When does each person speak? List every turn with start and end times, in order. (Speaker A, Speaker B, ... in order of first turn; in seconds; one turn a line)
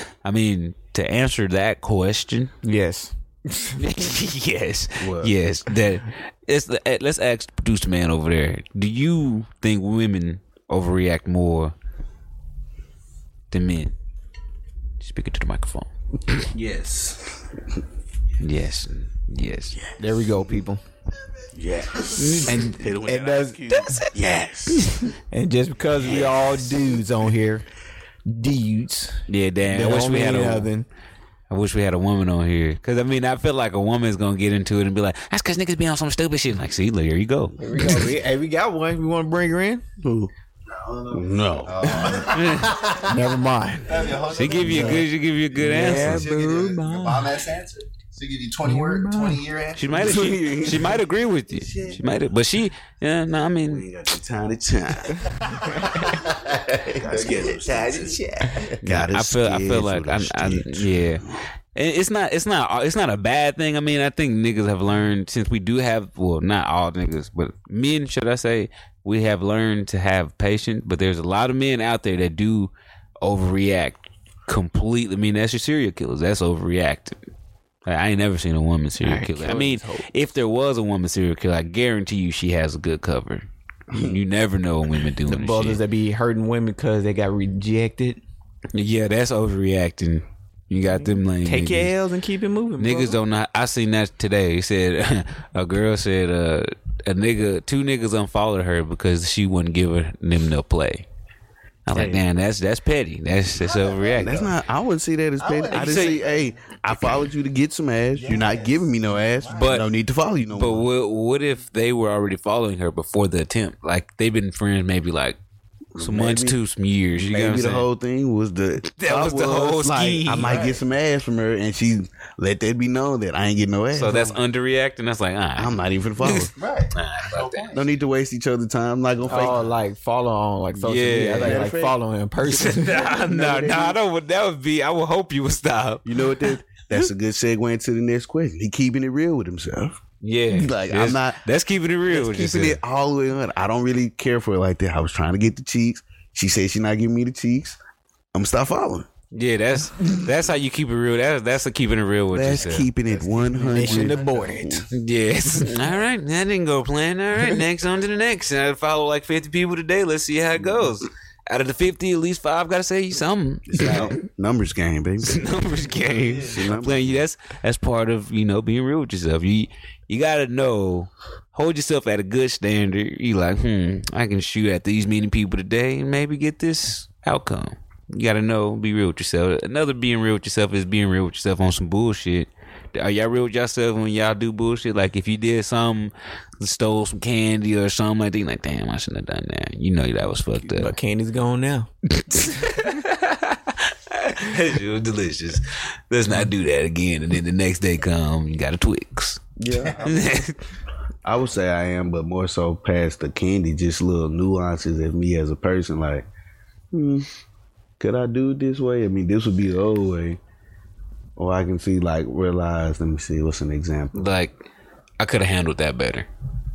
Speaker A: 0.2-2.5
Speaker B: 2.6-3.8
Speaker A: 3.8-11.7
Speaker C: 5.0-5.3
Speaker A: 13.5-13.9
Speaker A: 15.0-16.4
Speaker C: 16.5-17.4
Speaker A: 18.4-19.8
Speaker C: 19.8-20.6
Speaker B: 20.0-20.8
Speaker C: 21.5-24.9
Speaker A: 22.1-22.7
Speaker B: 22.4-23.6
Speaker A: 23.7-25.1
Speaker B: 25.1-27.6
Speaker A: 26.0-26.5
Speaker B: 28.2-30.9
Speaker A: 29.3-30.7
Speaker A: 31.5-37.5
Speaker B: 37.6-39.8
Speaker C: 40.0-40.3
Speaker C: 41.1-42.4
Speaker D: 41.6-43.1
Speaker A: 42.3-42.8
Speaker B: 42.6-45.0
Speaker D: 43.9-45.1
Speaker A: 44.3-46.3
Speaker B: 45.6-47.3
Speaker D: 45.6-50.2
Speaker B: 48.6-49.4
Speaker A: 49.7-53.8
Speaker C: 49.9-51.0
Speaker D: 51.5-52.0
Speaker C: 53.6-56.2
Speaker D: 55.4-58.8
Speaker C: 56.9-58.2
Speaker C: 58.8-61.2
Speaker A: 58.8-61.2
Speaker A: 61.7-77.2
Speaker A: 77.8-85.8
Speaker B: 79.0-80.0
Speaker C: 83.9-84.2
Speaker B: 85.3-88.2
Speaker A: 88.7-91.9
Speaker B: 91.0-93.2
Speaker A: 92.8-101.0
Speaker A: 101.8-104.4
Speaker C: 101.9-102.2
Speaker D: 103.6-104.5
Speaker C: 104.2-110.9
Speaker D: 105.4-106.5
Speaker A: 105.7-106.2
Speaker A: 106.9-107.2
Speaker D: 108.1-109.8
Speaker A: 109.5-109.8
Speaker A: 110.5-115.4
Speaker C: 115.9-116.6
Speaker A: 116.0-117.8
Speaker C: 117.2-124.4
Speaker A: 118.8-120.7
Speaker D: 120.4-120.8
Speaker A: 123.9-127.8
Speaker C: 125.5-126.5
Speaker D: 126.5-127.8
Speaker C: 127.7-129.6
Speaker B: 129.3-133.1
Speaker A: 130.8-131.6
Speaker C: 131.3-132.0
Speaker A: 132.4-136.5
Speaker C: 132.9-134.0
Speaker C: 136.0-140.0
Speaker A: 140.2-142.8
Speaker C: 140.5-141.4
Speaker C: 142.1-147.8
Speaker C: 148.3-149.1
Speaker A: 149.3-152.9
Speaker C: 152.3-154.8
Speaker D: 152.6-154.5
Speaker B: 153.6-154.9
Speaker A: 154.9-164.2
Speaker C: 163.7-165.5
Speaker A: 165.2-190.9
Speaker D: 166.1-166.6
Speaker C: 166.4-167.2
Speaker B: 190.7-191.9
Speaker A: 192.1-199.5
Speaker C: 199.6-200.3
Speaker D: 199.7-200.1
Speaker A: 200.0-200.6
Speaker C: 201.2-206.3
Speaker C: 206.9-207.3
Speaker C: 208.0-210.4
Speaker C: 211.4-214.3
Speaker A: 214.1-214.6
Speaker A: 215.2-216.3